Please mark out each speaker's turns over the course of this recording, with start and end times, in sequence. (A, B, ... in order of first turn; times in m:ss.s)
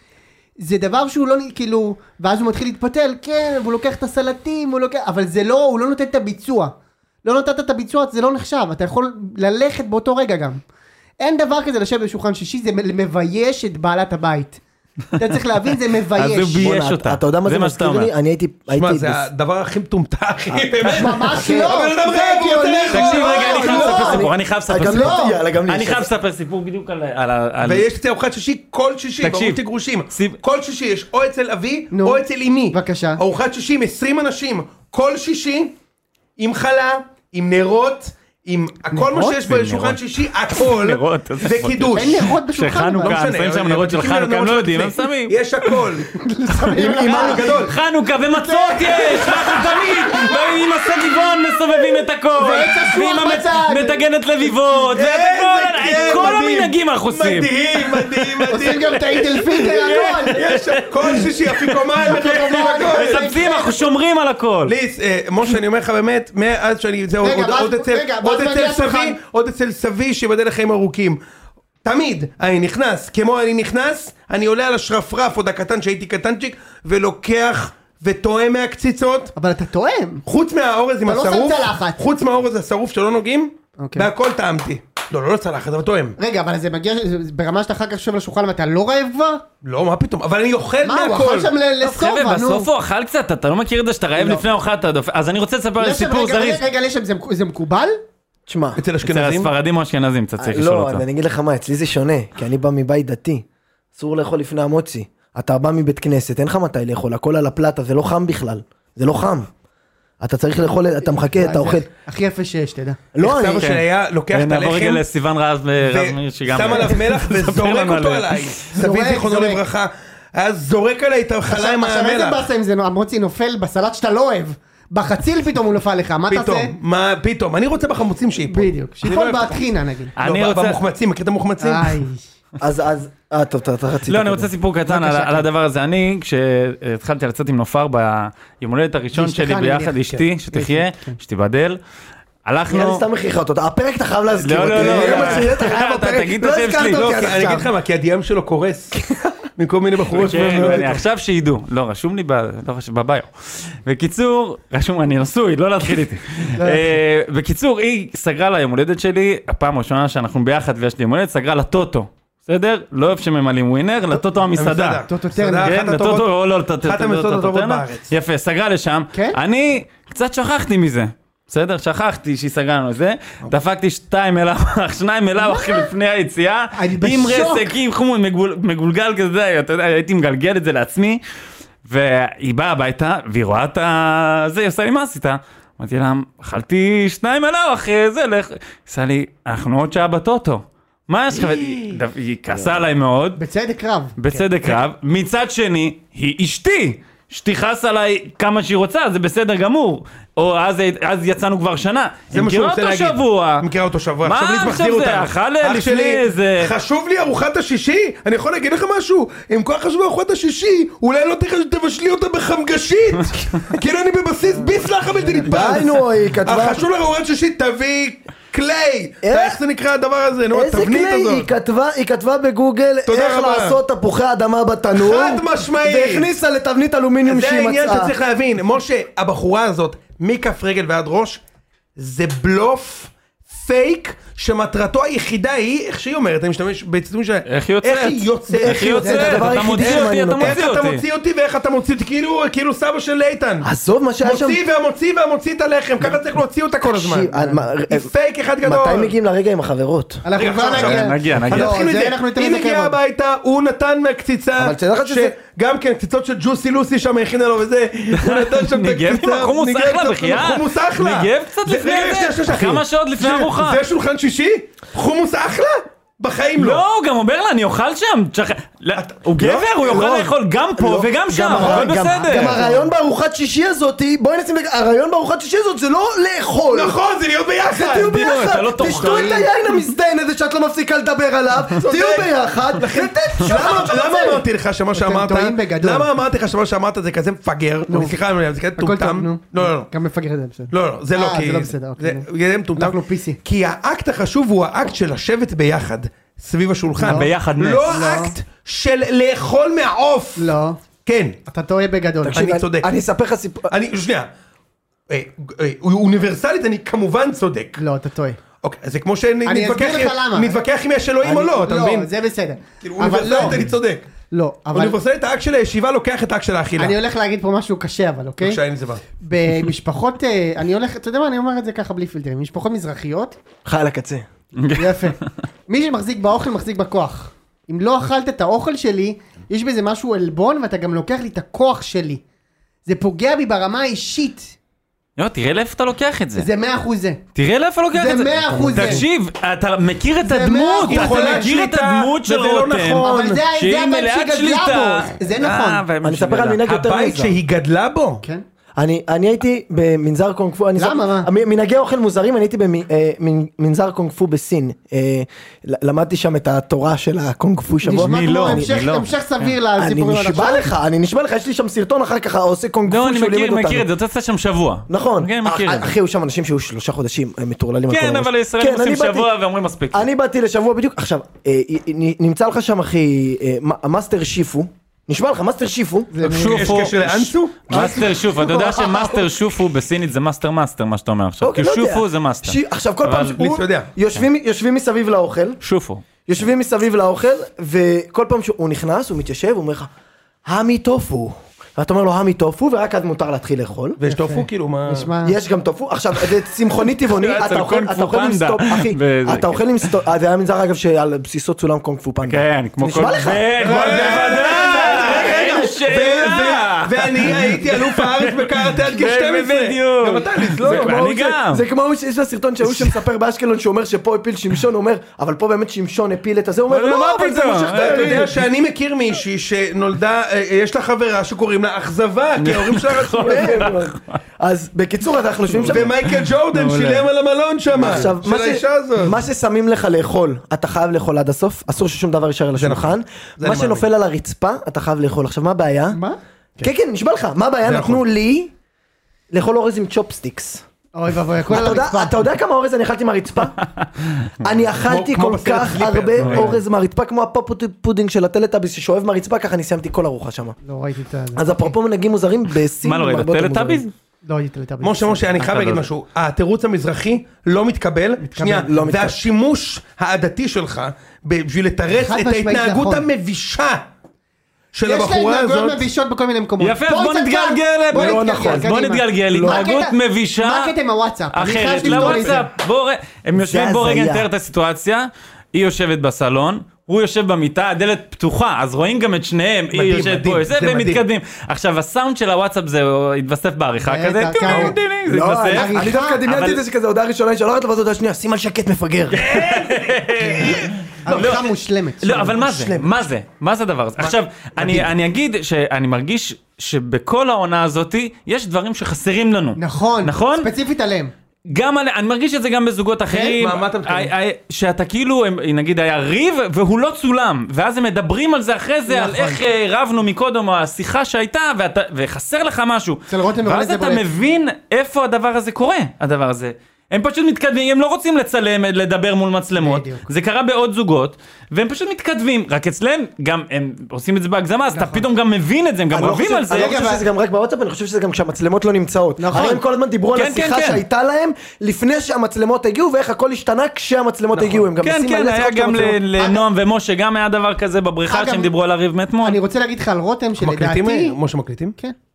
0:00.6-0:10.6 A
0:11.2-0:14.6 A
0:15.2-0:16.7 A
0:16.1-0:18.1 B
0:16.6-0:19.3 C
0:18.7-0:24.2 D
0:20.8-0:25.4 A
0:21.4-0:21.7 C
0:22.9-0:27.9 B
0:23.6-0:26.1 C
0:27.6-0:35.8 D
0:29.2-0:29.6 B
0:30.1-0:30.4 B
0:31.9-0:33.2 A
0:36.4-0:42.3 D
0:38.9-0:40.0 B
0:40.5-0:45.8 B
0:41.9-0:43.3 A
0:43.0-0:46.1 D
0:46.1-0:47.7 A
0:46.6-1:04.8 B
0:46.8-0:47.3 C
0:47.0-0:47.8 D
0:48.3-0:51.2 A
0:51.8-0:55.0 A
0:54.9-1:03.4 D
0:55.9-0:56.4 A
0:58.5-1:00.4 A
1:02.0-1:03.8 A
1:04.6-1:11.2 D
1:07.2-1:09.2 A
1:11.8-1:19.4 D
1:19.4-1:20.2 A
1:20.2-1:26.2 D
1:21.0-1:22.0 A
1:23.8-1:24.1 A
1:26.2-1:29.4 A
1:29.6-1:31.5 D
1:30.8-1:32.7 A
1:31.8-1:36.6 B
1:34.2-1:34.4 A
1:35.8-1:38.0 A
1:38.5-1:38.8 C
1:38.8-1:39.5 D
1:39.0-1:41.0 B
1:40.4-1:43.4 C
1:44.0-1:49.5 C
1:50.2-1:51.9 C
1:51.4-1:53.0 A
1:53.1-1:53.7 C
1:53.2-1:55.0 D
1:53.6-1:58.6 B
1:55.8-2:02.5 D
1:58.8-1:59.6 A
2:01.5-2:06.8 A
2:06.3-2:09.6 D
2:08.5-2:10.2 A
2:10.2-2:10.8 B
2:10.2-2:12.0 D
2:11.6-2:12.2 A
2:12.6-2:14.5 C
2:14.1-2:21.8 B
2:14.9-2:15.4 A
2:19.2-2:21.2 A
2:22.5-2:23.0 B
2:22.7-2:27.7 C
2:24.4-2:27.3 B
2:24.6-2:25.7 D
2:26.8-2:29.0 D
2:28.9-2:29.3 C
2:29.6-2:31.0 D
2:30.1-2:45.0 B
2:36.6-2:37.0 A
2:44.6-2:46.3 D
2:45.1-2:45.8 A
2:45.6-3:01.2 B
2:46.8-2:48.1 D
2:49.1-2:49.4 A
2:55.4-2:55.9 A
2:56.8-2:57.7 A
3:01.9-3:13.4 B
3:13.4-3:14.2 A
3:14.2-3:23.7 B
3:22.3-3:35.9 D
3:24.2-3:26.7 B
3:34.5-3:35.8 A
3:35.4-3:36.9 C
3:36.4-3:41.5 D
3:39.2-3:39.6 C
3:40.5-3:48.1 C
3:43.1-3:43.8 D
3:45.0-3:46.3 D
3:47.2-3:51.4 D
3:52.0-4:03.7 D
3:57.5-4:01.0 B
3:58.5-4:00.6 C
3:59.0-3:59.5 A
4:03.6-4:04.6 C
4:04.2-4:07.3 D
4:06.9-4:08.1 C
4:07.4-4:07.6 A
4:07.9-4:09.1 D
4:08.6-4:10.2 C
4:10.2-4:13.0 A
4:10.4-4:26.8 D
4:10.7-4:11.8 B
4:14.6-4:15.4 C
4:18.1-4:23.8 B
4:26.6-4:32.6 B
4:29.0-4:29.3 D
4:29.4-4:37.0 C
4:31.5-4:32.9 A
4:36.7-4:38.4 D
4:37.7-4:44.0 C
4:37.8-4:39.5 B
4:38.8-4:39.5 A
4:41.8-4:49.9 D
4:43.5-4:46.1 A
4:47.9-4:48.2 A
4:48.8-4:53.4 A
4:50.7-5:00.5 D
4:57.0-4:57.9 B
4:57.0-4:57.3 A
4:57.9-4:58.4 A
5:00.4-5:00.8 A
5:01.0-5:01.4 D
5:01.5-5:02.5 A
5:02.2-5:03.7 C
5:02.3-5:02.9 D
5:03.7-5:04.3 D
5:05.1-5:07.8 D
5:07.8-5:08.4 A
5:08.6-5:12.1 D
5:09.5-5:10.6 A
5:11.2-5:11.7 C
5:11.6-5:13.7 A
5:12.8-5:14.0 D
5:14.3-5:15.0 A
5:14.7-5:17.0 D
5:16.8-5:18.6 A
5:18.4-5:19.0 D
5:19.2-5:23.4 A
5:23.6-5:24.3 C
5:24.6-5:25.1 B
5:24.7-5:32.2 A
5:32.9-5:34.5 A
5:35.2-5:36.5 B
5:36.4-5:37.2 A
5:37.4-5:46.7 B
5:37.9-5:39.1 A
5:38.5-5:39.0 C
5:40.2-5:41.5 A
5:40.8-5:43.4 D
5:43.0-5:45.8 A
5:46.0-5:47.4 C
5:46.6-5:48.2 D
5:48.8-5:58.7 C
5:50.8-5:51.3 A
5:57.8-6:00.7 A
5:57.9-5:59.4 B
5:59.8-6:03.9 C
6:02.9-6:05.9 B
6:04.9-6:09.3 C
6:07.9-6:10.1 B
6:09.9-6:16.1 C
6:16.1-6:16.8 A
6:16.2-6:17.8 D
6:16.3-6:23.6 B
6:17.7-6:19.3 C
6:17.7-6:18.0 A
6:21.4-6:25.6 C
6:23.4-6:23.9 D
6:25.6-6:26.0 B
6:26.3-6:29.9 C
6:30.5-6:34.0 C
6:34.0-6:35.1 D
6:34.1-6:35.4 A
6:35.2-6:45.8 C
6:37.0-6:39.9 B
6:42.2-6:51.6 B
6:43.6-6:51.0 D
6:50.6-6:58.3 C
6:52.6-6:53.0 B
6:56.7-6:58.3 B
6:57.7-7:03.7 D
7:02.4-7:04.2 B
7:03.2-7:05.9 C
7:05.6-7:07.1 B
7:05.6-7:09.2 D
7:07.8-7:16.0 C
7:12.6-7:13.9 D
7:15.9-7:16.2 A
7:16.6-7:18.5 C
7:17.7-7:18.0 D
7:19.3-7:20.6 C
7:21.0-7:22.2 A
7:21.5-7:23.6 C
7:24.4-7:30.6 C
7:24.9-7:26.6 D
7:26.2-7:26.6 B
7:30.6-7:31.7 A
7:31.4-7:33.8 C
7:32.8-7:33.9 B
7:34.2-7:35.4 A
7:34.8-7:43.9 D
7:35.4-7:35.9 B
7:38.3-7:38.7 A
7:38.4-7:39.2 C
7:41.9-7:43.1 A
7:44.7-7:45.8 D
7:44.8-7:52.5 A
7:46.6-7:50.8 B
7:47.9-7:48.8 C
7:49.3-7:49.7 C
7:51.3-8:06.6 B
7:51.8-7:52.4 D
7:53.4-7:54.3 C
7:59.7-8:01.0 D
8:03.8-8:04.8 A
8:05.1-8:09.4 C
8:05.5-8:06.2 A
8:09.1-8:11.5 B
8:10.2-8:11.5 D
8:11.0-8:12.4 A
8:12.0-8:20.5 B
8:12.2-8:13.0 D
8:14.0-8:14.9 D
8:19.6-8:21.1 A
8:21.5-8:46.8 B
8:23.1-8:24.1 D
8:28.9-8:29.4 A
8:33.1-8:34.0 A
8:39.6-8:40.1 A
8:44.7-8:45.0 A
8:45.9-8:56.0 C
8:46.5-8:47.0 A
8:49.2-8:49.6 A
8:50.1-8:50.8 B
8:54.4-8:54.7 D
8:54.8-8:59.4 B
8:56.2-8:56.4 A
8:58.1-8:58.5 A
8:59.2-9:01.2 A
9:00.4-9:01.8 D